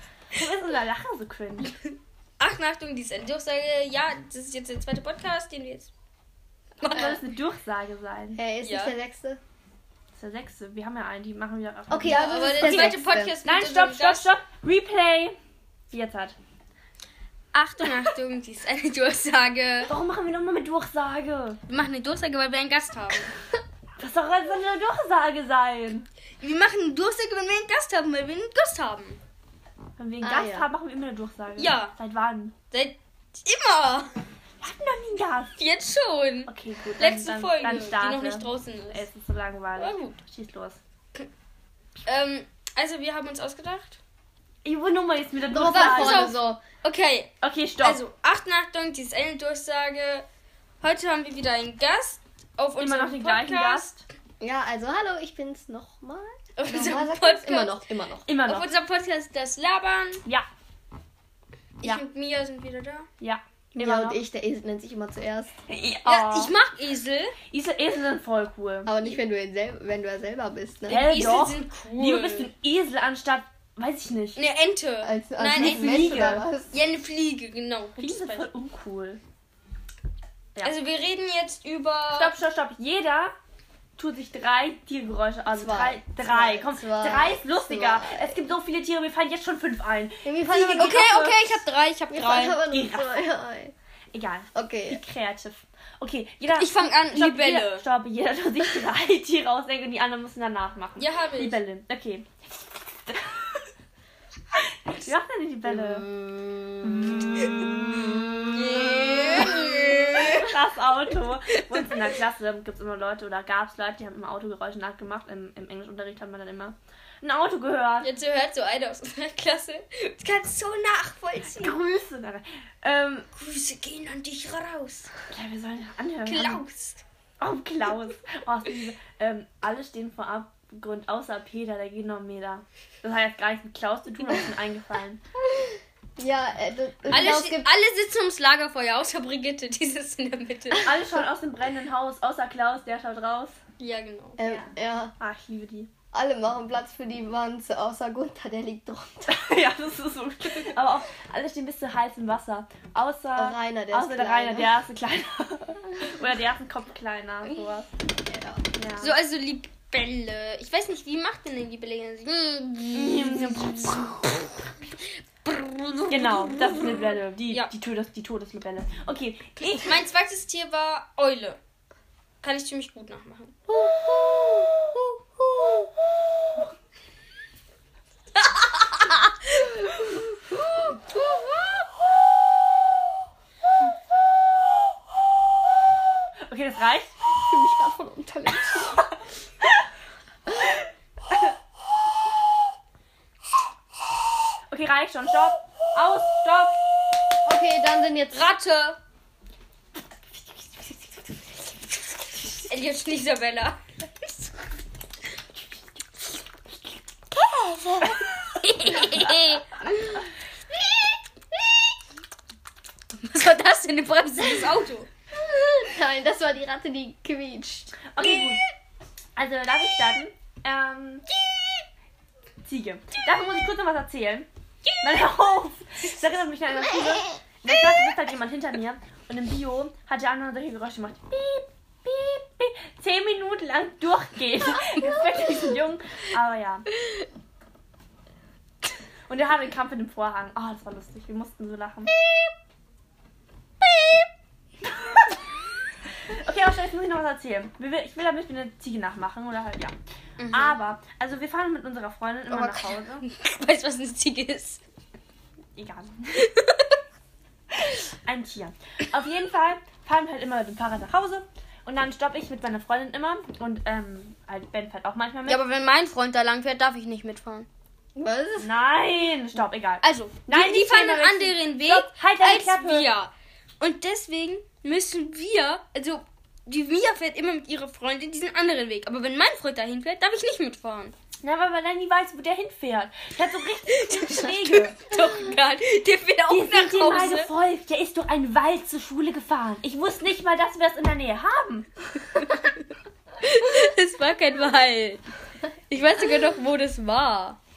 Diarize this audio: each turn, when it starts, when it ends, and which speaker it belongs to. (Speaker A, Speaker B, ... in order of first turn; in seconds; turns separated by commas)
Speaker A: 0.3-1.7, Speaker B: 1.9-5.9, Speaker B: 6.8-7.2, Speaker A: 6.8-8.4, Speaker C: 8.3-9.4, Speaker B: 8.6-8.9, Speaker A: 10.2-15.4, Speaker C: 11.9-13.4, Speaker B: 12.0-14.3, Speaker A: 15.9-16.4, Speaker B: 17.5-19.9, Speaker A: 19.9-21.6, Speaker B: 21.7-23.3, Speaker A: 24.0-26.1, Speaker B: 26.4-29.2, Speaker A: 30.0-32.5, Speaker C: 30.2-30.7, Speaker B: 31.6-31.9, Speaker B: 32.7-34.1, Speaker A: 34.6-35.6, Speaker B: 35.6-39.1, Speaker A: 36.5-40.8, Speaker B: 39.8-40.2, Speaker B: 42.0-44.0, Speaker A: 44.6-46.3, Speaker C: 45.5-46.6, Speaker B: 45.6-50.3, Speaker A: 47.4-48.0, Speaker B: 50.8-53.9, Speaker A: 52.8-54.0, Speaker C: 54.4-58.3, Speaker B: 56.6-57.8, Speaker A: 58.3-58.7, Speaker B: 58.4-60.2, Speaker B: 61.8-63.1, Speaker A: 63.2-64.2, Speaker C: 63.8-65.5, Speaker A: 65.7-66.5, Speaker B: 66.0-67.4, Speaker A: 67.5-68.9, Speaker C: 68.9-71.0, Speaker A: 70.9-74.4, Speaker B: 70.9-72.5, Speaker B: 74.3-78.5, Speaker C: 75.0-76.8, Speaker A: 75.5-76.5, Speaker A: 78.0-79.2, Speaker B: 80.6-82.4, Speaker A: 82.1-83.3, Speaker A: 84.0-91.6, Speaker C: 85.5-88.4, Speaker C: 90.2-91.0, Speaker B: 90.7-92.6, Speaker C: 92.1-93.7, Speaker A: 92.5-93.3, Speaker A: 94.1-103.6, Speaker C: 94.5-95.0, Speaker B: 96.6-97.9, Speaker B: 101.0-101.6, Speaker A: 104.9-106.1, Speaker C: 106.0-106.8, Speaker A: 106.8-108.1, Speaker C: 107.9-108.8, Speaker B: 108.5-110.5, Speaker A: 109.2-118.1, Speaker B: 111.5-112.2, Speaker B: 118.0-121.8, Speaker A: 121.4-123.3, Speaker B: 123.3-125.1, Speaker A: 125.3-126.6, Speaker B: 126.2-127.0, Speaker A: 127.4-135.2, Speaker C: 135.6-137.7, Speaker B: 137.1-140.9, Speaker A: 140.8-143.6, Speaker B: 143.8-144.5, Speaker C: 144.4-145.2, Speaker A: 144.4-145.9, Speaker C: 146.1-149.4, Speaker A: 149.3-157.9, Speaker C: 153.4-154.8, Speaker C: 158.3-158.6, Speaker A: 158.8-159.2, Speaker B: 159.0-164.4, Speaker A: 162.9-164.5, Speaker B: 165.4-166.7, Speaker A: 166.1-170.0, Speaker B: 167.5-167.7, Speaker B: 169.7-171.6, Speaker B: 172.4-173.6, Speaker C: 173.7-175.9, Speaker B: 178.4-180.2, Speaker B: 180.9-181.3, Speaker A: 186.4-187.1, Speaker C: 187.3-189.1, Speaker A: 194.7-196.8, Speaker C: 197.4-198.5, Speaker B: 198.3-199.0, Speaker A: 200.6-201.0, Speaker B: 202.6-203.8, Speaker B: 208.6-210.2, Speaker A: 208.9-209.6, Speaker B: 213.2-215.1, Speaker C: 215.3-218.0, Speaker A: 218.1-218.6, Speaker A: 219.4-221.3, Speaker A: 222.7-224.5, Speaker A: 225.0-236.9, Speaker B: 234.9-235.6, Speaker B: 237.0-237.2, Speaker A: 239.3-242.1, Speaker B: 242.2-242.5, Speaker B: 243.8-244.3, Speaker A: 244.8-245.4, Speaker A: 246.3-250.0, Speaker B: 250.4-250.8, Speaker A: 250.5-253.3, Speaker B: 252.5-254.8, Speaker A: 255.8-256.5, Speaker B: 256.4-257.0, Speaker A: 258.2-265.6, Speaker B: 265.4-267.7, Speaker C: 268.2-268.8, Speaker A: 268.6-273.1, Speaker B: 270.0-281.1, Speaker A: 281.4-285.1, Speaker B: 283.9-287.5, Speaker A: 286.5-291.9, Speaker B: 292.3-292.9, Speaker B: 293.4-295.2, Speaker B: 295.9-297.6